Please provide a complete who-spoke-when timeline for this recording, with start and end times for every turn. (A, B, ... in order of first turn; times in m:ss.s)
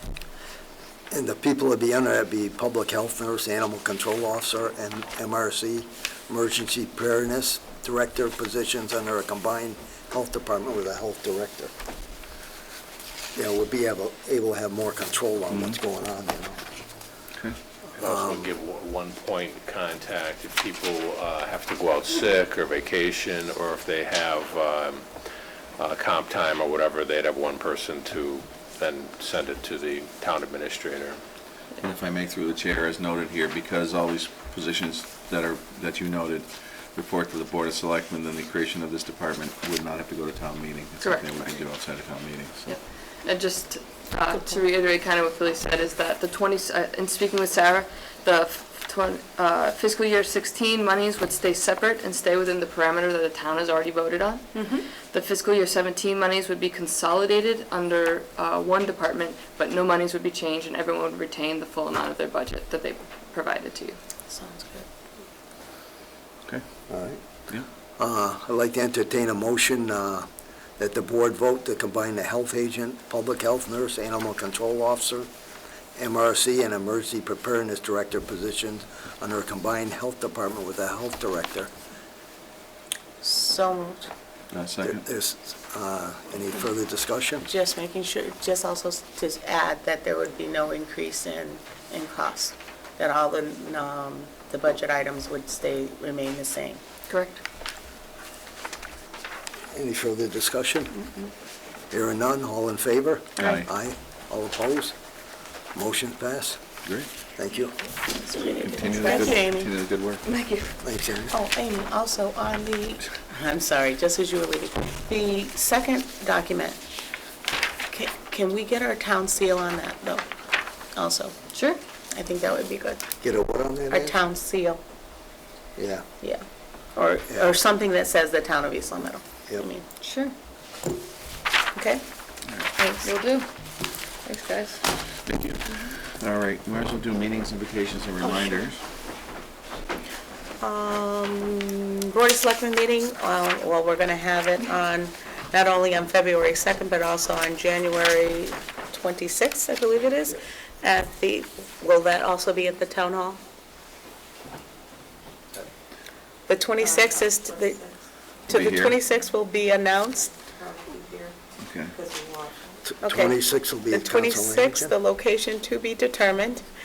0:01.1-0:11.7 A
0:13.4-0:16.6 A
0:18.0-0:25.1 B
0:18.0-0:18.5 A
0:25.8-0:31.2 B
0:31.8-0:42.7 C
0:41.0-0:41.6 D
0:42.7-1:04.0 D
0:54.5-0:54.9 E
1:04.3-1:04.9 E
1:06.9-1:07.2 A
1:08.0-1:10.3 A
1:10.8-1:15.3 A
1:16.0-1:21.7 A
1:23.2-1:24.1 E
1:24.5-1:25.0 C
1:24.8-1:27.4 A
1:27.4-1:36.8 E
1:37.1-1:37.4 D
1:39.7-1:41.0 A
1:41.0-1:41.3 E
1:41.9-1:45.0 A
1:43.4-1:43.7 C
1:45.7-1:46.6 A
1:47.4-1:47.8 A
1:48.1-1:49.7 E
1:48.6-1:50.2 C
1:50.2-1:50.8 D
1:50.8-1:51.3 A
1:51.3-1:56.8 E
1:57.9-2:00.2 E
2:01.0-2:01.3 E
2:01.5-2:01.8 D
2:02.1-2:03.0 E
2:03.2-2:04.2 A
2:03.9-2:04.8 E
2:05.8-2:06.0 A
2:07.0-2:09.8 E
2:10.0-2:10.3 D
2:11.8-2:12.0 E
2:12.8-2:13.1 E
2:13.0-2:13.5 D
2:14.2-2:14.8 D
2:15.2-2:18.8 C
2:20.6-2:33.4 E
2:36.5-2:37.9 E
2:38.5-2:41.3 E
2:38.5-2:39.0 C
2:41.6-2:42.0 C
2:42.0-2:42.5 E
2:42.8-2:44.9 A
2:43.0-2:46.7 E